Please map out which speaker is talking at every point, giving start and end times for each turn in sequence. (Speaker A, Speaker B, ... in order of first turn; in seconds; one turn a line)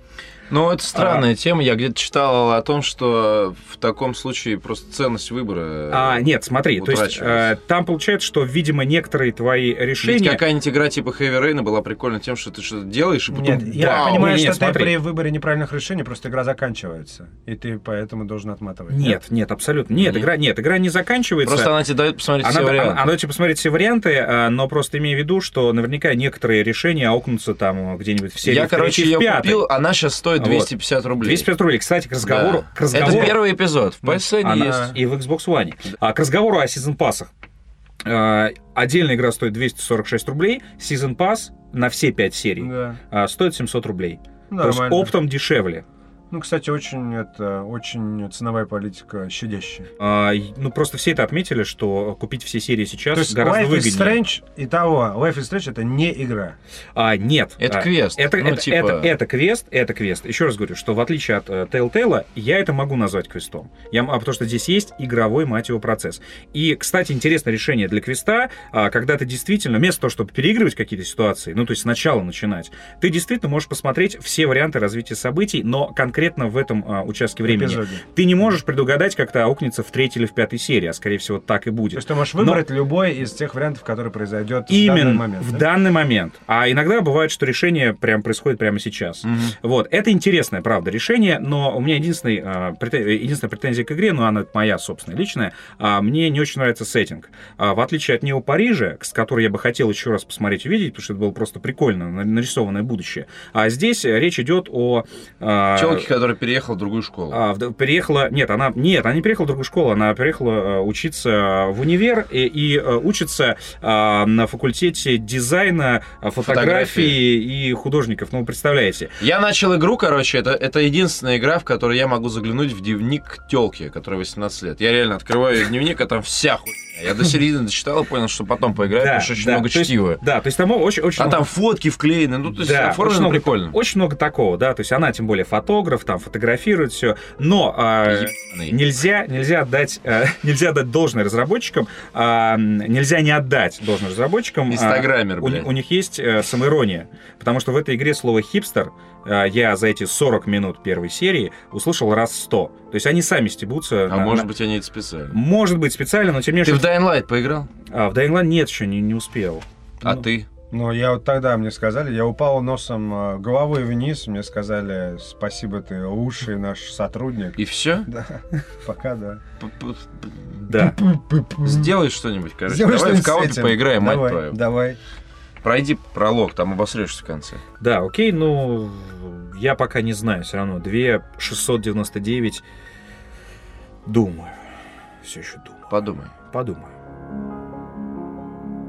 Speaker A: 0.5-6.2
Speaker B: 0.9-1.2
Speaker B: 5.9-10.4
Speaker A: 6.8-7.5
Speaker A: 10.0-14.3
Speaker C: 13.3-19.2
Speaker B: 13.7-14.9
Speaker B: 18.9-21.7
Speaker A: 19.9-20.3
Speaker A: 21.4-23.0
Speaker B: 22.4-29.7
Speaker A: 28.4-31.5
Speaker B: 30.4-33.4
Speaker A: 32.2-34.9
Speaker B: 34.0-37.3
Speaker C: 34.6-34.9
Speaker B: 38.0-45.8
Speaker C: 42.6-43.0
Speaker C: 44.5-45.1
Speaker C: 46.3-49.9
Speaker B: 50.0-54.2
Speaker C: 53.1-56.6
Speaker B: 56.9-82.6
Speaker A: 57.6-59.1
Speaker C: 77.4-78.0
Speaker C: 81.9-85.7
Speaker B: 84.7-106.1
Speaker A: 89.2-89.5
Speaker A: 105.7-107.4
Speaker B: 107.3-119.1
Speaker A: 116.4-117.2
Speaker A: 119.2-130.2
Speaker B: 128.9-131.4
Speaker A: 131.2-133.8
Speaker B: 132.5-154.5
Speaker A: 138.1-138.8
Speaker A: 144.7-145.7
Speaker A: 154.1-155.4
Speaker B: 155.3-157.0
Speaker A: 156.6-157.7
Speaker B: 157.9-159.6
Speaker A: 160.0-160.5
Speaker C: 160.0-169.4
Speaker A: 167.6-168.1
Speaker A: 169.6-170.4
Speaker B: 170.7-171.0
Speaker C: 170.7-171.9
Speaker A: 171.6-174.6
Speaker C: 172.7-175.0
Speaker A: 175.6-177.6
Speaker B: 177.8-182.6
Speaker B: 184.1-184.6
Speaker B: 185.2-185.9
Speaker A: 185.9-186.3
Speaker B: 186.5-186.9